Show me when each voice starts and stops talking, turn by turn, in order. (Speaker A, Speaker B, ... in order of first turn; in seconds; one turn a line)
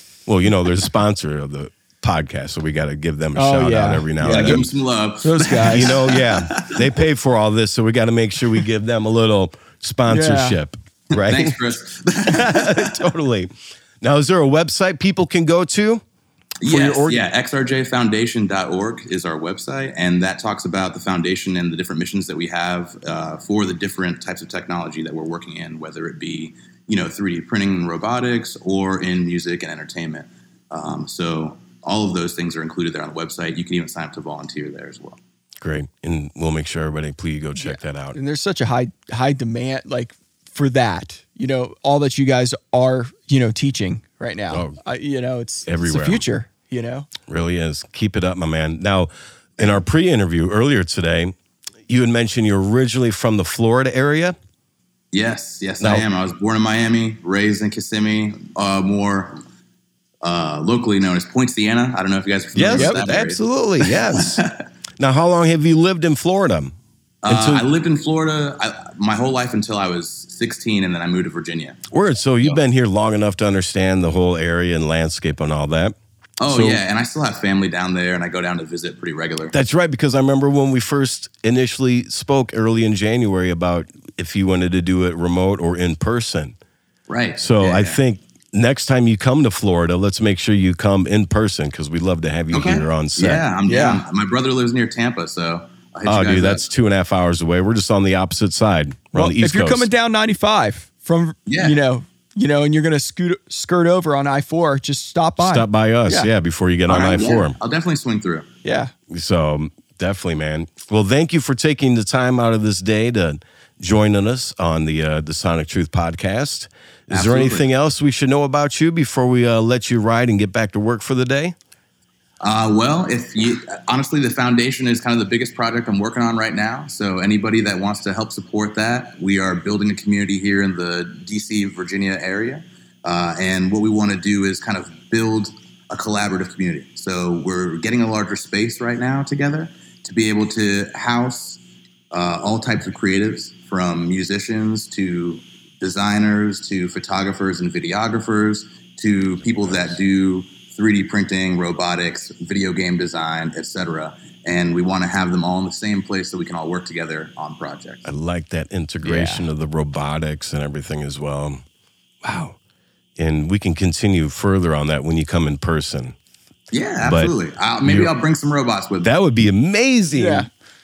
Speaker A: 0.3-4.7
Speaker B: 3.4-4.7
Speaker C: 4.2-6.9
Speaker B: 5.2-6.0
Speaker A: 5.7-11.6
Speaker B: 10.1-10.6
Speaker C: 11.1-12.9
Speaker A: 12.2-13.5
Speaker A: 14.0-16.0
Speaker C: 16.6-35.2
Speaker A: 16.6-17.2
Speaker A: 35.6-38.2
Speaker B: 37.5-47.1
Speaker A: 44.5-44.8
Speaker A: 45.7-46.2
Speaker A: 47.3-51.4
Speaker A: 51.9-54.4
Speaker C: 55.1-59.4
Speaker A: 55.8-56.1
Speaker C: 60.2-64.6
Speaker A: 62.5-64.4
Speaker B: 62.7-63.0
Speaker A: 65.0-66.8
Speaker C: 67.2-71.8
Speaker A: 67.3-67.7
Speaker A: 71.9-76.8
Speaker C: 76.4-79.5
Speaker A: 79.5-86.5
Speaker C: 87.1-88.0
Speaker A: 87.4-93.4
Speaker C: 92.5-96.6
Speaker B: 93.7-94.0
Speaker A: 96.0-99.9
Speaker B: 99.1-106.3
Speaker C: 101.5-101.8
Speaker A: 105.4-107.6
Speaker C: 106.9-108.5
Speaker B: 108.6-108.9
Speaker A: 109.1-121.5
Speaker C: 117.1-117.7
Speaker C: 122.4-158.1
Speaker A: 158.1-161.6
Speaker B: 159.0-159.5
Speaker A: 162.2-162.6
Speaker A: 163.2-166.1
Speaker C: 166.7-169.1
Speaker A: 167.0-168.1
Speaker A: 169.0-170.5
Speaker B: 170.1-170.5